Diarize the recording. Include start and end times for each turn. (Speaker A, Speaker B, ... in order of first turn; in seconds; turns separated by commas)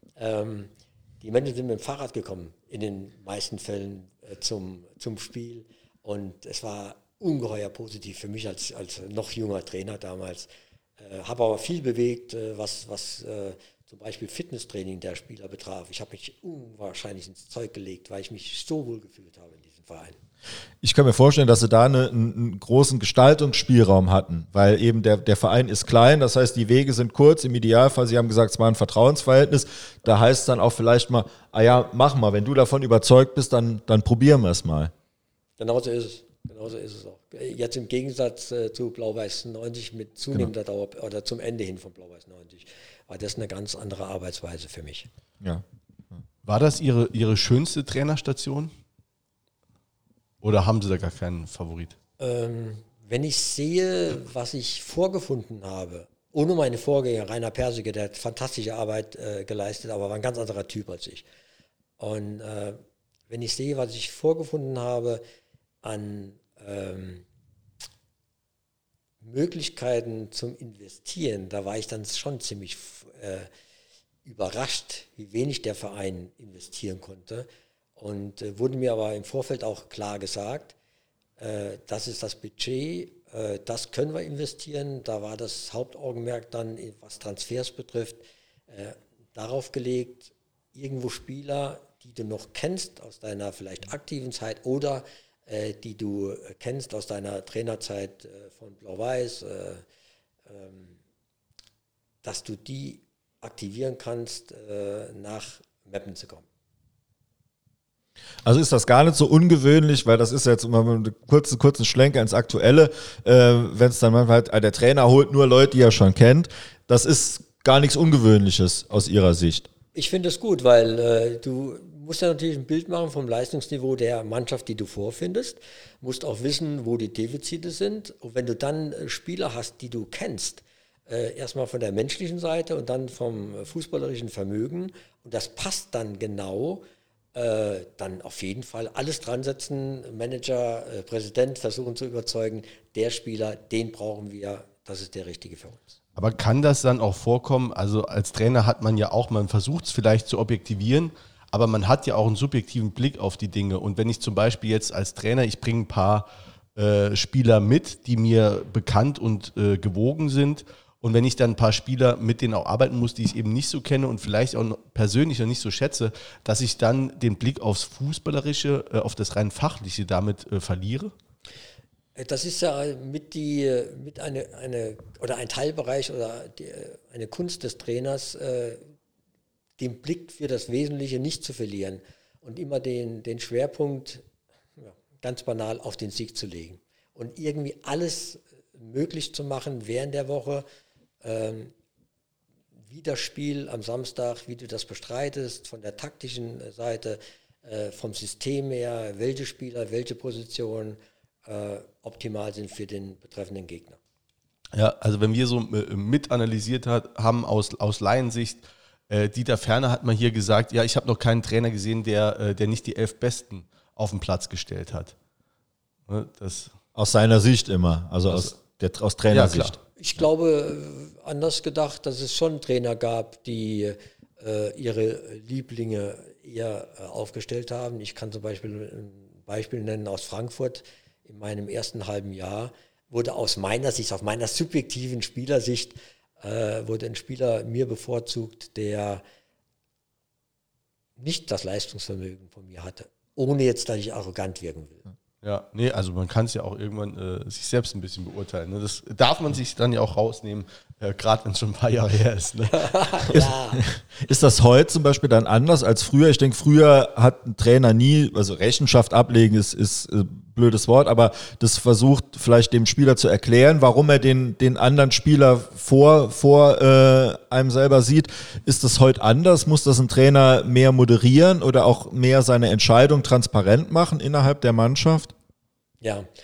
Speaker A: 0.2-10.5, Speaker A: 11.0-20.2, Speaker B: 20.8-34.9, Speaker A: 35.6-45.1, Speaker C: 46.4-48.7, Speaker C: 50.4-52.0, Speaker A: 52.2-61.2, Speaker A: 62.0-65.2, Speaker A: 65.8-67.2, Speaker A: 69.2-73.5, Speaker A: 74.2-80.7, Speaker A: 81.4-99.8, Speaker A: 100.5-101.0, Speaker A: 102.2-106.5, Speaker B: 108.4-119.7, Speaker A: 119.9-136.8, Speaker A: 137.3-145.8, Speaker C: 146.2-171.1, Speaker A: 172.2-178.8, Speaker A: 179.8-184.2, Speaker A: 184.8-190.6, Speaker A: 191.2-191.7, Speaker A: 192.9-204.0, Speaker C: 204.7-215.1, Speaker C: 216.1-216.7, Speaker B: 216.9-219.8, Speaker C: 218.3-218.5, Speaker C: 219.3-219.8, Speaker A: 220.0-239.2, Speaker A: 241.2-245.1, Speaker C: 245.4-253.4, Speaker A: 252.7-253.8, Speaker B: 254.2-275.3, Speaker A: 276.0-276.3